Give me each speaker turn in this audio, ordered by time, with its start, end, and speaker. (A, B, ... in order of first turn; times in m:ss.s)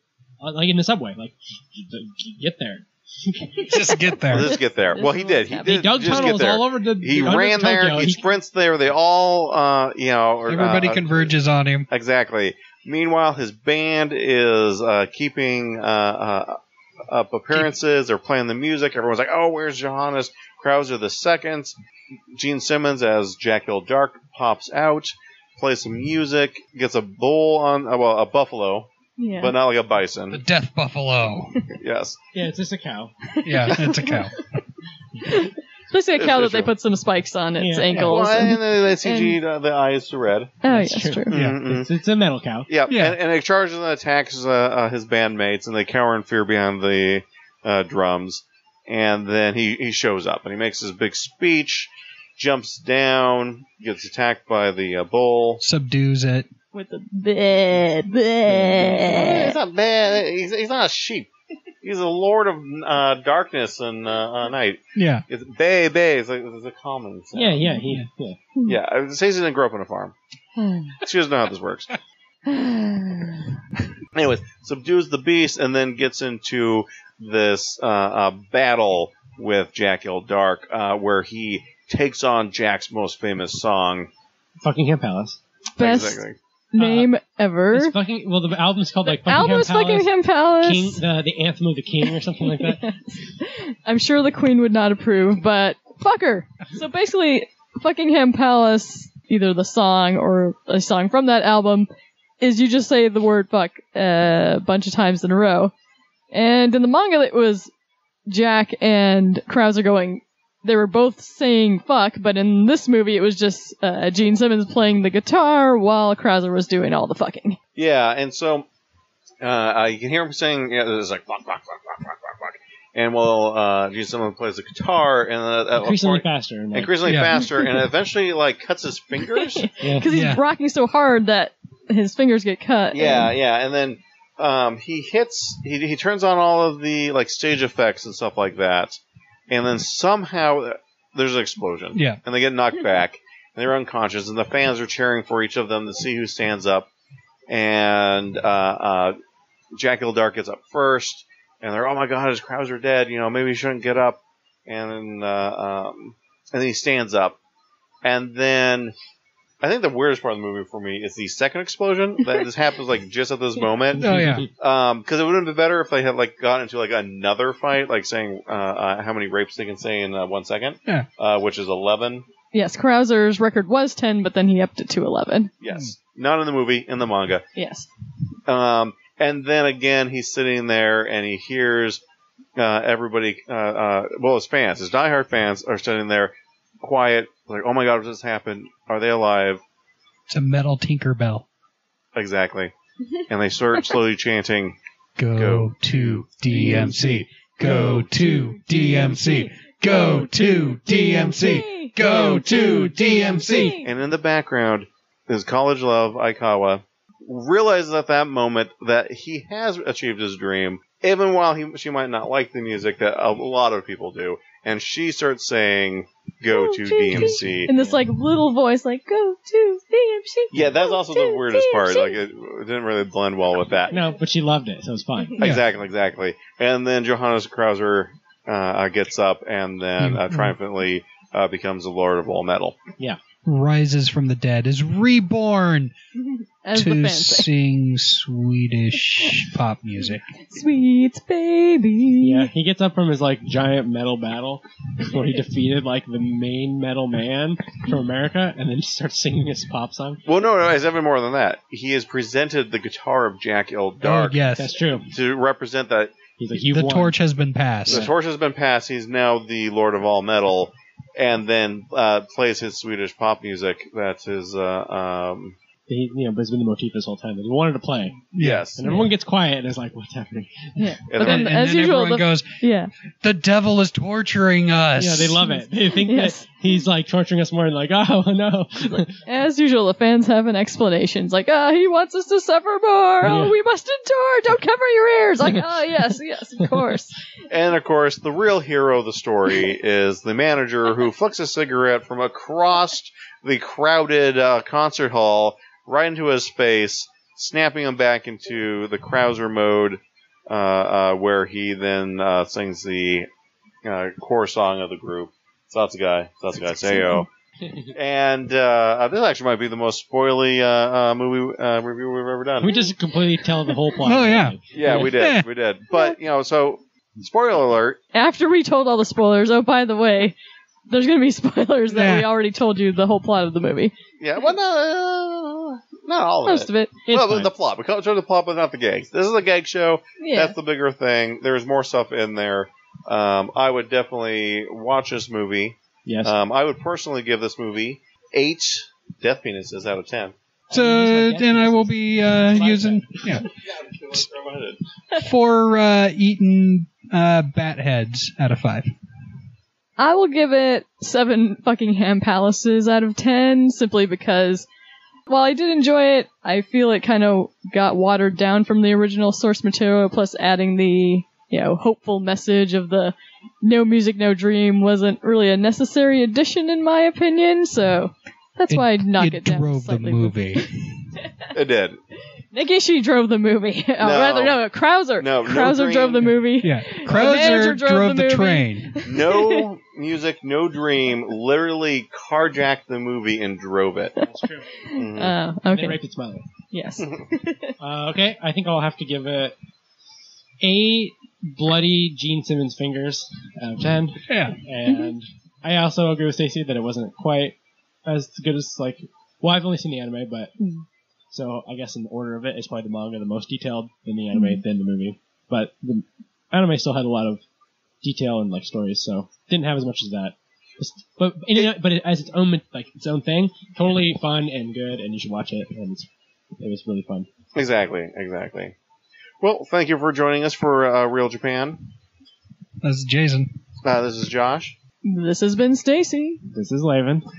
0:00.4-0:03.7 A
0:03.7-0:04.5 B
0:03.7-0:06.0 C
0:04.3-0:11.3 D
0:05.6-0:08.3 A
0:10.5-0:11.9 B
0:11.9-0:21.8 D
0:22.4-0:30.4 D
0:29.2-0:29.6 C
0:30.3-0:31.6 B
0:31.7-0:32.2 D
0:32.3-0:33.1 A
0:33.3-0:34.3 C
0:33.4-0:34.4 B
0:35.2-0:39.4 C
0:36.2-0:36.7 D
0:37.6-0:38.5 A
0:37.9-0:40.6 D
0:40.6-0:41.3 C
0:40.7-0:42.7 A
0:41.3-0:41.9 D
0:41.3-0:41.6 B
0:42.7-0:55.6 D
0:42.9-0:43.2 B
0:55.6-0:56.5 B
0:56.7-0:59.6 C
0:58.9-1:01.3 D
1:01.8-1:07.7 D
1:05.0-1:05.2 B
1:07.3-1:08.4 A
1:08.6-1:10.2 D
1:10.6-1:10.9 C
1:10.9-1:11.9 D
1:12.5-1:13.4 C
1:14.1-1:24.1 D
1:24.6-1:25.4 A
1:25.8-1:27.9 C
1:25.8-1:26.4 D
1:26.8-1:27.1 A
1:27.7-1:32.8 A
1:29.0-1:31.0 C
1:32.0-1:41.9 C
1:42.4-1:45.7 C
1:46.3-1:47.7 C
1:48.3-1:57.6 C
1:57.8-1:58.7 D
1:59.4-2:09.7 D
2:05.8-2:07.0 A
2:07.0-2:07.4 B
2:09.3-2:13.3 C
2:09.8-2:10.1 A
2:10.1-2:10.4 B
2:12.9-2:26.9 D
2:27.5-2:29.2 D
2:29.8-2:37.4 D
2:38.0-2:39.0 D
2:39.6-2:52.3 D
2:44.0-2:44.5 A
2:44.0-2:44.5 B
2:52.5-2:55.5 C
2:55.6-2:57.4 D
2:57.6-2:57.9 C
2:58.5-3:02.0 D
3:02.6-3:09.6 D
3:10.3-3:11.4 B
3:12.2-3:12.7 D
3:13.3-3:14.8 D
3:15.2-3:23.8 B
3:15.3-3:18.2 D
3:18.8-3:19.5 C
3:20.9-3:23.9 C
3:23.0-3:37.8 D
3:36.5-3:42.2 C
3:37.1-3:37.6 B
3:40.5-3:44.0 D
3:43.9-3:45.4 A
3:45.4-3:52.8 D
3:50.0-3:50.6 B
3:53.5-3:55.9 B
3:56.2-3:57.5 C
3:56.7-4:00.3 B
4:00.5-4:02.5 C
4:02.2-4:10.2 A
4:10.3-4:14.5 D
4:14.0-4:14.8 B
4:14.5-4:15.1 A
4:15.1-4:16.2 D
4:16.4-4:17.1 A
4:16.7-4:18.1 B
4:17.9-4:25.6 D
4:17.9-4:18.1 A
4:25.9-4:31.0 A
4:28.4-4:29.1 B
4:28.4-4:28.8 D
4:30.8-4:32.9 C
4:31.1-4:31.5 D
4:31.2-4:32.6 B
4:33.2-4:35.4 B
4:35.0-4:39.2 A
4:35.4-4:36.5 C
4:38.8-4:47.2 C
4:43.2-4:43.6 A
4:47.5-5:03.3 D
5:03.8-5:07.3 D
5:06.8-5:07.3 C
5:07.6-5:07.9 A
5:07.9-5:12.8 D
5:12.6-5:15.2 A
5:14.0-5:15.5 B
5:14.7-5:18.0 D
5:15.9-5:16.2 C
5:18.1-5:20.4 C
5:20.9-5:23.9 C
5:21.9-5:22.3 B
5:24.2-5:40.3 D
5:26.4-5:27.1 C
5:27.1-5:27.5 A
5:30.2-5:30.6 C
5:36.1-5:36.4 A
5:40.7-5:43.4 A
5:40.7-5:43.5 B
5:43.7-5:44.8 D
5:45.2-5:48.9 B
5:50.0-5:54.7 C
5:55.3-6:11.5 C
6:08.7-6:10.7 B
6:11.5-6:12.0 D
6:12.5-6:19.6 C
6:14.0-6:14.6 D
6:15.2-6:16.4 D
6:16.6-6:19.1 B
6:17.1-6:17.7 D
6:19.0-6:24.2 D
6:24.2-6:24.8 A
6:24.8-6:26.0 C
6:24.9-6:25.4 D
6:25.7-6:26.4 A
6:26.7-6:27.7 C
6:27.8-6:29.6 A
6:30.6-6:40.5 A
6:34.3-6:34.6 B
6:34.9-6:35.1 C
6:41.3-6:47.4 A
6:44.3-6:44.6 C
6:48.0-6:56.1 A
6:56.6-6:57.3 A
6:57.6-6:58.8 D
6:59.4-7:01.8 D
7:02.8-7:03.5 B
7:03.8-7:04.8 D
7:05.0-7:06.4 C
7:06.5-7:07.2 A